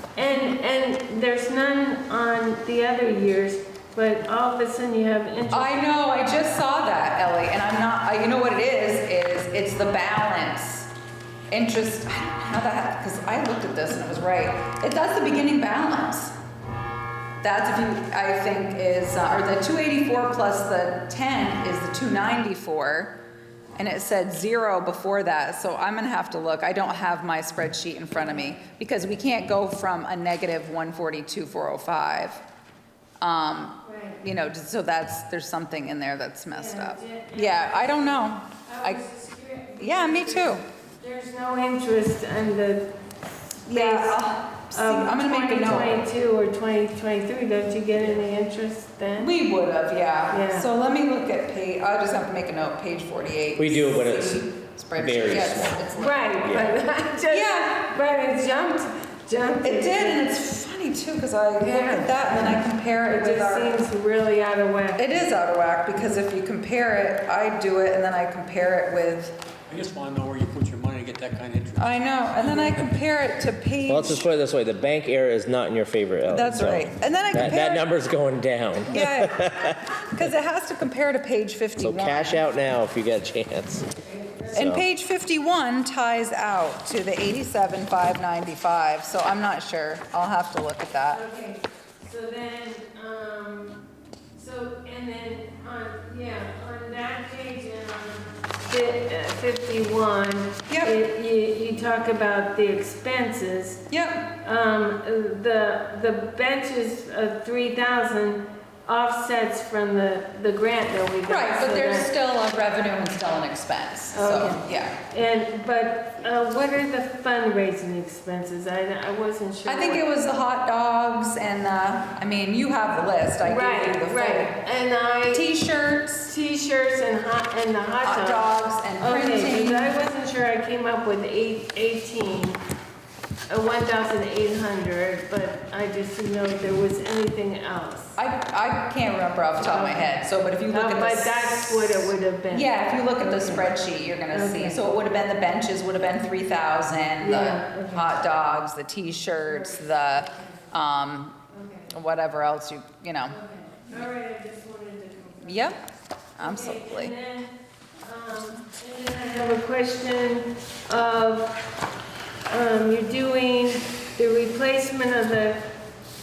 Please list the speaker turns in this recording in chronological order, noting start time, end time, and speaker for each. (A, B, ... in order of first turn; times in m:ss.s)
0:00.2-0:05.7 A
0:05.5-0:10.9 B
0:11.5-0:16.3 B
0:17.4-0:23.2 B
0:23.8-0:32.4 B
0:33.2-0:39.0 B
0:33.8-0:34.2 A
0:36.5-0:42.9 A
0:39.8-0:40.6 B
0:43.6-0:49.3 A
0:43.6-0:45.9 B
0:49.2-0:56.3 B
0:50.3-0:50.7 A
0:53.6-0:54.4 C
0:55.0-0:56.7 C
0:56.0-1:00.4 A
0:57.3-0:57.8 B
0:59.6-1:03.8 B
1:01.6-1:05.0 A
1:05.0-1:09.4 B
1:09.7-1:11.9 D
1:11.8-1:14.2 B
1:13.9-1:20.2 C
1:16.3-1:17.9 B
1:18.9-1:22.4 B
1:21.8-1:23.9 C
1:24.0-1:24.7 A
1:24.5-1:24.8 C
1:24.5-1:31.2 B
1:31.1-1:33.8 A
1:34.3-1:43.8 A
1:40.7-1:40.9 B
1:43.9-1:44.3 B
1:44.4-1:52.1 A
1:51.2-1:55.0 B
1:54.1-2:00.0 A
1:59.6-2:04.6 B
2:03.4-2:05.5 A
2:05.3-2:06.3 B
2:06.2-2:12.6 A
2:08.0-2:09.9 B
2:13.5-2:18.2 A
2:18.2-2:33.4 B
2:19.6-2:20.2 A
2:20.7-2:23.7 A
2:24.3-2:24.9 A
2:27.2-2:28.1 A
2:29.4-2:30.6 A
2:31.5-2:31.9 A
2:33.3-2:35.8 A
2:35.4-2:35.8 B
2:36.4-2:37.1 B
2:36.4-2:41.6 A
2:42.4-2:45.7 A